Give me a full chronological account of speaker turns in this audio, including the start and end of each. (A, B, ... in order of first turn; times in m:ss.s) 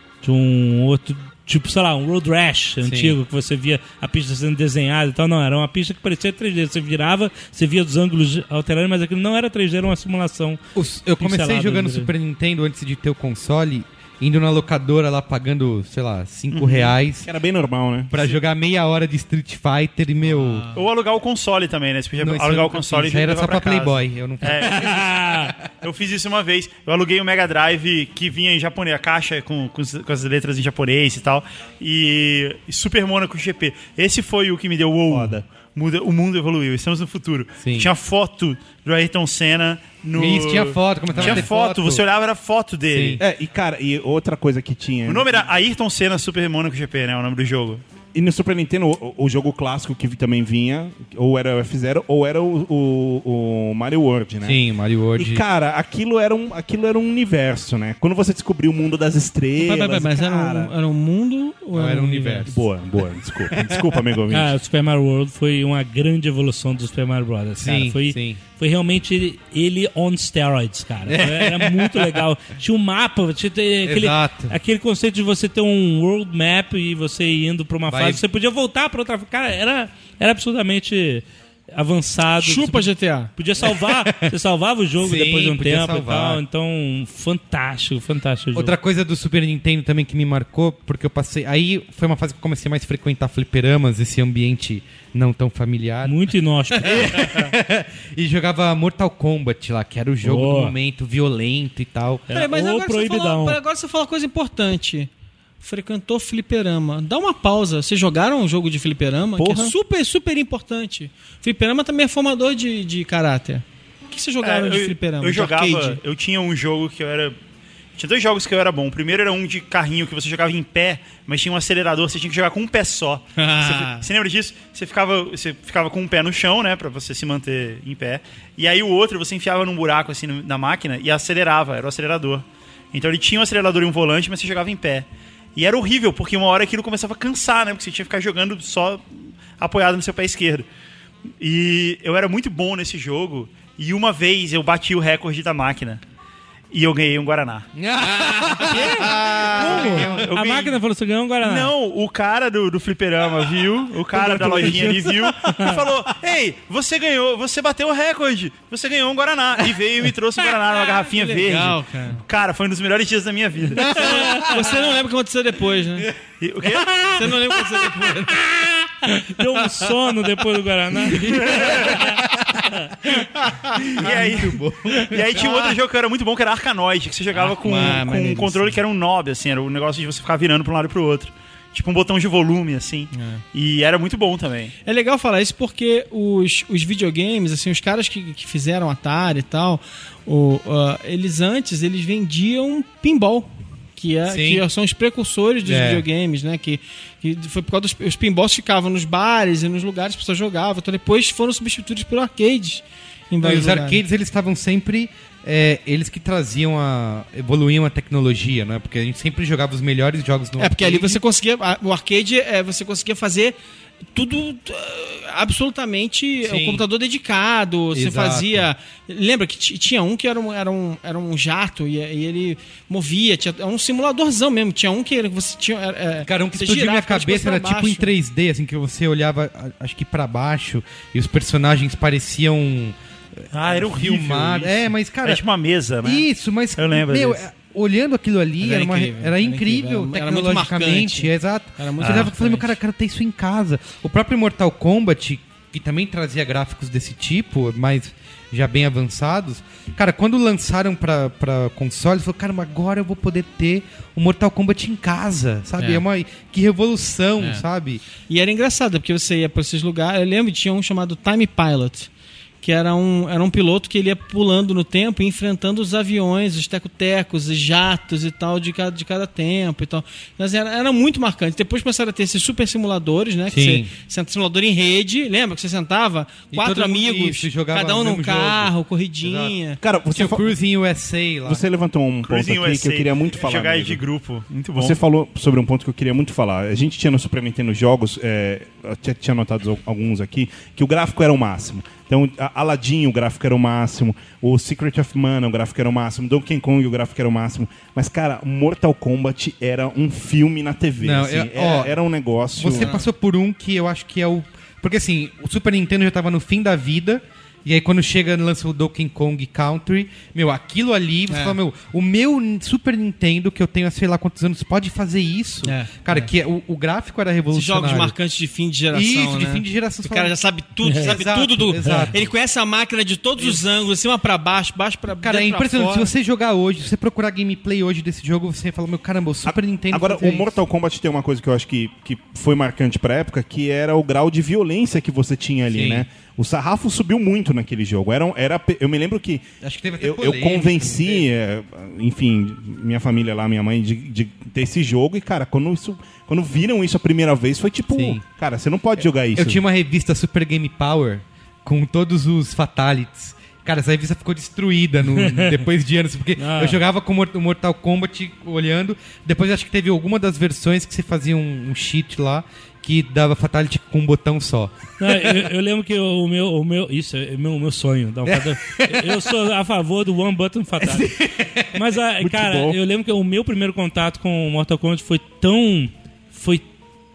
0:00.2-0:10.6 A
0:02.8-0:03.2 B
0:10.7-0:17.3 B
0:11.2-0:12.1 A
0:16.5-0:16.9 C
0:17.2-0:18.3 D
0:18.1-0:20.6 B
0:20.2-0:20.9 E
0:20.7-0:25.0 C
0:22.2-0:25.7 B
0:24.6-0:25.5 A
0:25.8-0:43.2 C
0:35.1-0:35.4 D
0:37.6-0:37.9 B
0:40.2-0:42.0 B
0:41.2-0:41.4 D
0:42.9-0:43.2 B
0:43.2-0:45.5 D
0:45.0-0:47.8 C
0:48.1-0:54.6 D
0:54.4-0:55.4 B
0:55.2-1:00.7 D
0:59.6-1:02.6 E
1:01.7-1:02.5 B
1:02.5-1:04.5 D
1:03.4-1:04.1 B
1:04.3-1:28.7 A
1:07.6-1:08.4 B
1:11.0-1:12.2 B
1:13.8-1:14.6 B
1:17.9-1:18.2 B
1:22.4-1:23.3 E
1:23.6-1:24.3 B
1:25.0-1:26.4 B
1:28.5-1:42.2 B
1:36.0-1:37.5 A
1:40.2-1:40.7 A
1:42.3-1:43.6 A
1:42.3-1:45.1 E
1:45.6-1:56.0 E
1:49.4-1:49.7 D
1:54.4-1:57.4 C
1:57.9-2:20.6 C
2:03.4-2:04.1 E
2:21.4-2:26.0 C
2:26.7-2:27.7 C
2:27.8-2:30.3 B
2:28.0-2:31.7 A
2:28.7-2:30.8 C
2:31.4-2:44.0 C
2:34.1-2:35.8 A
2:40.9-2:42.2 E
2:43.8-2:44.4 B
2:43.9-2:46.1 E
2:43.9-2:44.6 A
2:46.4-2:47.3 C
2:47.1-2:48.4 E
2:47.8-2:53.0 A
2:51.3-2:55.4 B
2:53.3-2:54.1 E
2:54.0-3:04.7 C
2:55.3-2:55.7 E
2:57.3-2:58.8 E
3:03.1-3:03.4 E
3:04.8-3:24.0 E
3:14.3-3:14.6 B
3:15.6-3:16.0 B
3:23.4-3:31.2 B
3:30.6-3:33.6 E
3:34.1-3:48.1 E
3:36.4-3:36.8 B
3:37.9-3:38.7 B
3:46.2-3:55.4 B
3:53.5-3:56.2 C
3:56.0-4:18.0 B
3:56.8-3:57.4 C
3:58.6-4:02.8 E
4:02.0-4:02.3 C
4:15.8-4:16.0 E
4:18.3-4:22.1 E
4:22.6-4:39.8 E
4:33.5-4:33.9 B
4:36.5-4:39.6 B
4:39.8-4:40.5 D
4:40.1-4:41.6 B
4:41.4-4:44.0 D
4:42.2-4:45.0 C
4:44.7-5:02.9 D
5:01.0-5:02.0 B
5:02.5-5:18.2 B
5:02.6-5:03.1 E
5:11.3-5:11.6 E
5:15.6-5:16.3 E
5:17.5-5:26.1 E
5:18.9-5:20.4 B
5:20.8-5:21.1 A
5:20.9-5:22.3 B
5:21.8-5:22.1 A
5:23.4-5:23.6 B
5:25.2-5:30.5 B
5:29.4-5:49.6 D
5:35.7-5:36.1 B
5:39.6-5:41.3 B
5:47.9-5:48.2 B
5:49.0-6:05.4 B
5:55.1-5:55.6 A
5:56.4-5:56.8 A
6:05.0-6:11.1 A
6:08.2-6:09.3 B
6:10.8-6:11.8 B
6:11.7-6:16.6 A
6:12.2-6:12.8 D